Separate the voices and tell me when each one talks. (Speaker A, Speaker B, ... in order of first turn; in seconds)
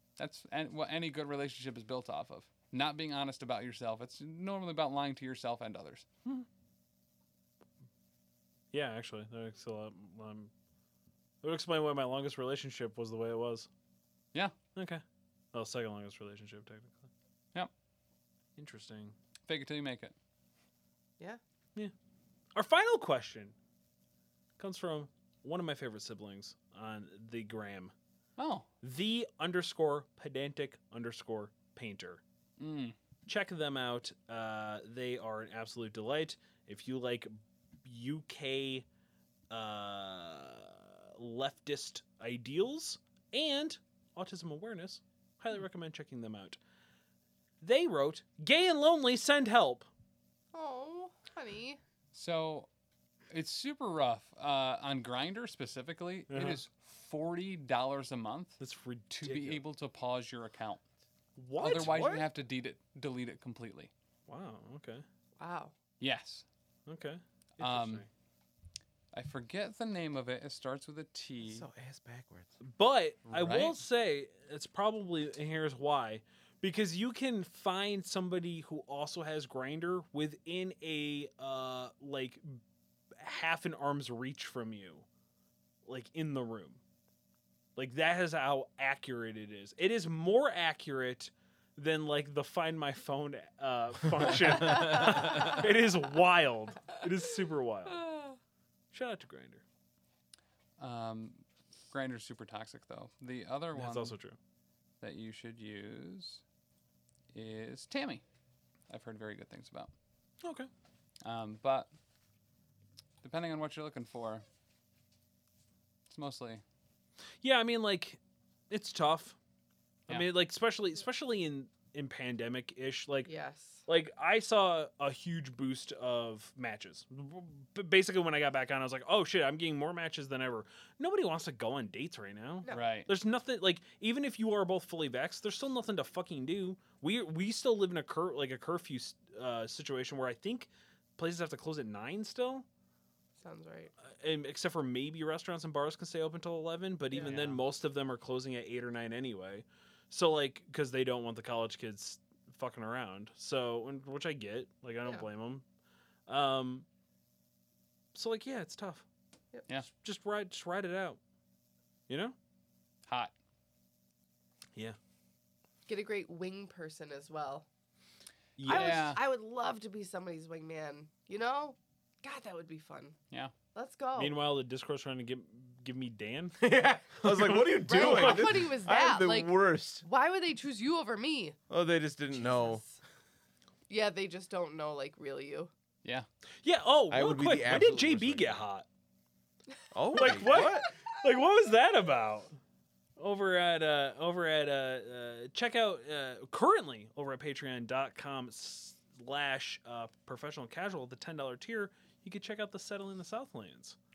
Speaker A: 0.2-6.1, 19.5-20.1, 28.4-28.7, 32.6-33.0, 52.1-52.7, 53.3-58.6, 59.2-60.8, 61.6-63.9, 66.0-66.5, 67.6-68.1, 69.1-71.7, 73.3-73.8, 100.8-104.2, 105.0-106.4, 107.3-108.2, 108.9-109.9, 111.2-111.9, 113.2-114.4, 116.1-116.6, 132.7-133.1, 147.2-147.6, 163.1-163.3, 168.7-169.2
Speaker B: 8.7-10.5, 11.4-13.7, 14.8-15.0, 15.5-17.1, 18.6-19.1, 22.6-23.5, 24.6-27.9, 28.8-32.2, 33.3-37.3, 37.9-38.9, 39.5-46.6, 47.6-49.9, 56.3-56.6, 58.6-59.6, 61.4-62.0, 64.3-65.0, 66.9-68.1, 72.6-82.4, 83.2-85.0, 85.8-86.8, 87.8-98.2, 98.9-99.6, 103.8-104.4, 110.4-110.7, 117.4-118.2, 118.7-119.4, 120.1-123.3, 123.9-142.7, 144.2-155.6, 156.3-156.9, 158.1-159.1, 159.9-161.2, 162.1-162.3, 168.6-169.1, 174.2-176.6, 177.2-178.6, 186.6-188.9, 190.1-192.5, 193.2-204.0
Speaker C: 50.5-51.8, 65.4-65.7, 123.3-123.8, 143.4-143.9, 147.1-147.4, 165.9-167.7, 168.7-173.2, 173.7-174.4, 177.9-181.6, 182.3-183.0, 183.9-185.7, 190.2-190.6
Speaker D: 61.6-62.2, 71.4-72.5, 94.6-95.5, 176.6-180.0, 181.7-182.8, 187.1-188.6, 189.9-190.9